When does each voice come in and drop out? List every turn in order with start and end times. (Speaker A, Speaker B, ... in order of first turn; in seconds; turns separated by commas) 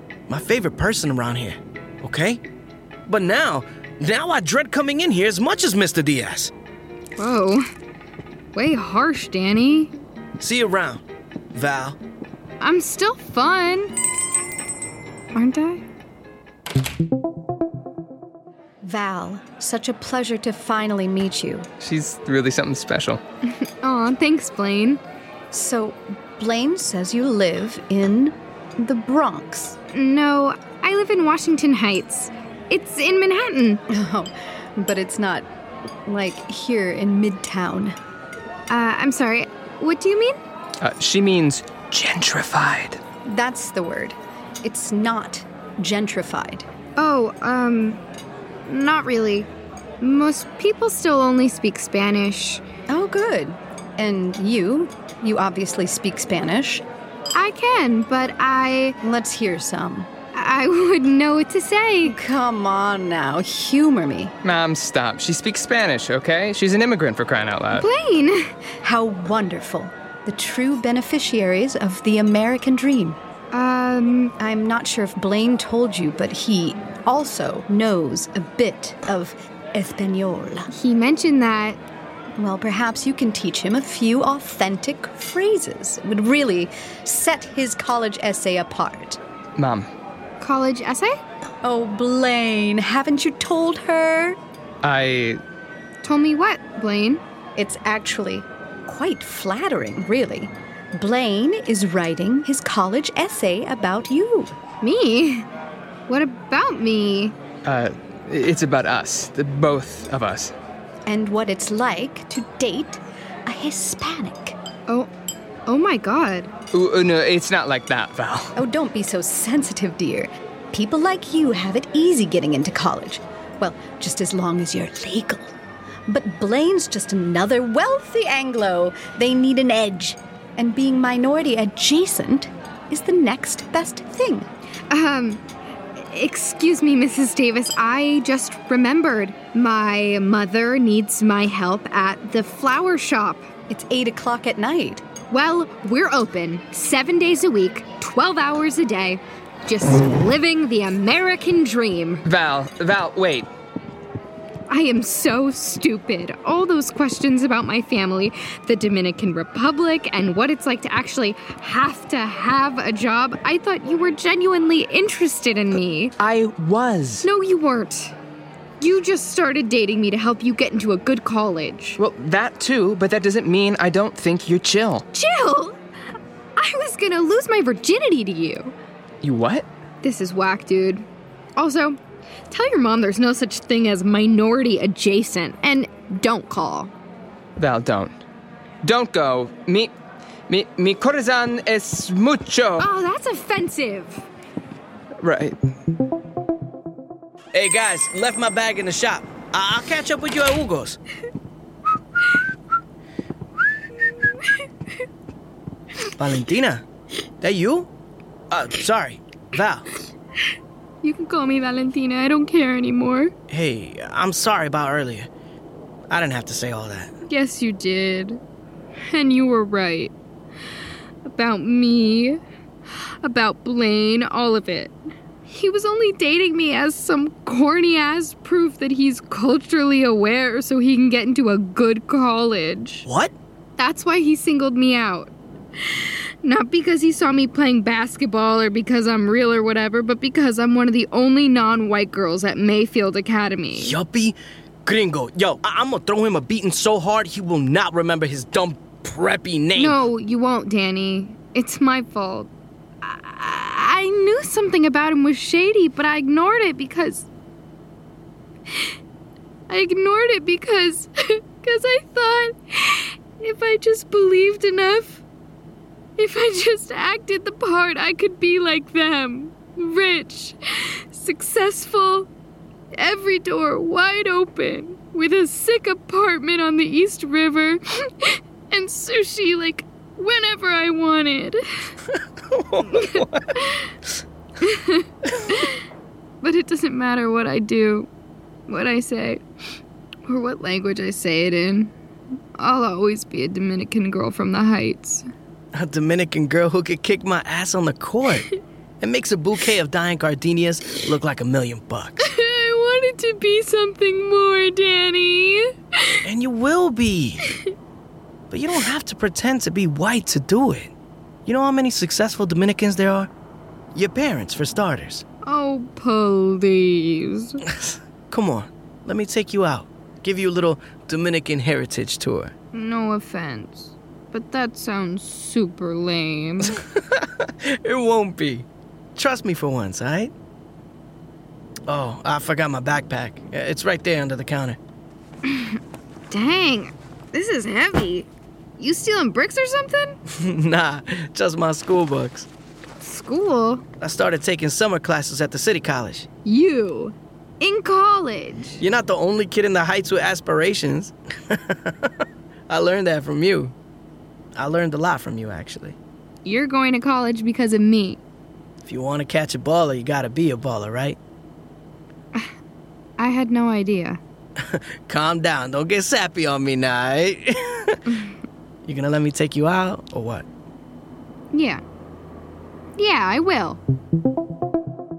Speaker A: 0.3-2.4, Speaker A: 3.1-6.5, Speaker B: 7.2-7.6, Speaker B: 8.6-9.9, Speaker A: 10.4-11.0, Speaker A: 11.5-12.0, Speaker B: 12.6-13.9, Speaker B: 15.3-15.8, Speaker C: 18.8-21.7, Speaker D: 21.8-23.2, Speaker B: 23.8-25.0, Speaker C: 25.5-29.8, Speaker B: 29.9-33.8, Speaker C: 33.9-35.5, Speaker C: 36.1-38.0, Speaker B: 38.7-40.4, Speaker D: 40.8-43.0, Speaker C: 43.3-46.7, Speaker B: 47.0-48.0, Speaker B: 48.7-49.5, Speaker B: 50.0-52.6, Speaker C: 52.9-56.8, Speaker B: 57.3-59.0, Speaker C: 59.0-60.1, Speaker B: 60.3-62.2, Speaker C: 62.0-64.3, Speaker D: 64.4-67.9, Speaker B: 67.8-68.5, Speaker C: 68.8-73.2, Speaker B: 73.5-74.3, Speaker C: 74.4-80.7, Speaker B: 80.7-81.8, Speaker C: 82.4-89.2, Speaker D: 89.6-89.9, Speaker B: 90.4-91.2, Speaker C: 91.6-94.4, Speaker D: 94.8-95.4, Speaker B: 96.0-97.2, Speaker C: 97.6-104.5, Speaker B: 104.8-105.5, Speaker B: 106.1-107.3, Speaker D: 107.6-110.5, Speaker C: 111.1-114.6, Speaker B: 115.7-116.5, Speaker D: 116.7-118.5, Speaker C: 118.6-125.5, Speaker C: 126.1-134.5, Speaker B: 134.9-135.4, Speaker B: 136.0-143.5, Speaker C: 143.7-145.0, Speaker B: 145.3-152.2, Speaker D: 152.2-153.5, Speaker B: 154.7-166.1, Speaker D: 166.2-167.3, Speaker B: 167.2-168.1, Speaker B: 168.8-172.0, Speaker D: 172.0-175.1, Speaker B: 175.1-175.8, Speaker B: 176.6-178.7, Speaker D: 179.2-179.7, Speaker B: 180.0-181.1, Speaker B: 181.6-182.0, Speaker B: 182.5-186.9, Speaker D: 187.6-188.2, Speaker D: 188.8-189.9, Speaker D: 190.5-192.9, Speaker B: 192.8-194.2, Speaker D: 195.2-195.6, Speaker A: 197.5-201.0, Speaker A: 206.2-206.8, Speaker A: 207.4-207.9, Speaker A: 208.5-209.9, Speaker B: 211.0-213.3, Speaker A: 213.5-215.3, Speaker A: 216.1-217.1, Speaker B: 217.3-218.4, Speaker B: 219.1-220.1, Speaker B: 221.3-222.4, Speaker B: 223.2-224.9, Speaker B: 225.5-233.1, Speaker A: 233.1-233.3, Speaker B: 233.8-235.3, Speaker B: 235.9-244.0, Speaker A: 243.8-250.0, Speaker B: 249.8-252.5, Speaker B: 253.0-257.3, Speaker B: 259.7-265.2, Speaker B: 266.2-272.3, Speaker B: 273.0-281.6, Speaker A: 282.1-283.5, Speaker B: 284.6-285.7, Speaker B: 286.4-288.1, Speaker B: 288.7-289.4, Speaker B: 290.3-291.9, Speaker B: 292.6-295.2, Speaker A: 295.7-298.5, Speaker A: 299.0-302.3, Speaker B: 302.2-306.1, Speaker A: 306.2-307.5, Speaker A: 308.5-310.9, Speaker A: 311.5-313.3, Speaker A: 313.9-315.2, Speaker B: 315.4-317.6, Speaker A: 317.8-322.5, Speaker B: 322.7-326.8, Speaker A: 326.7-330.3, Speaker A: 331.9-334.8, Speaker B: 335.5-335.7, Speaker B: 336.3-340.2, Speaker A: 340.3-342.5, Speaker B: 343.0-343.8, Speaker A: 344.0-346.3, Speaker B: 346.5-348.8, Speaker A: 348.8-352.1, Speaker A: 352.7-353.7, Speaker A: 354.6-356.0, Speaker B: 356.4-358.2, Speaker A: 358.8-361.2, Speaker B: 363.2-364.2, Speaker A: 364.6-368.0, Speaker A: 368.9-370.4, Speaker B: 371.5-371.8, Speaker B: 373.0-373.8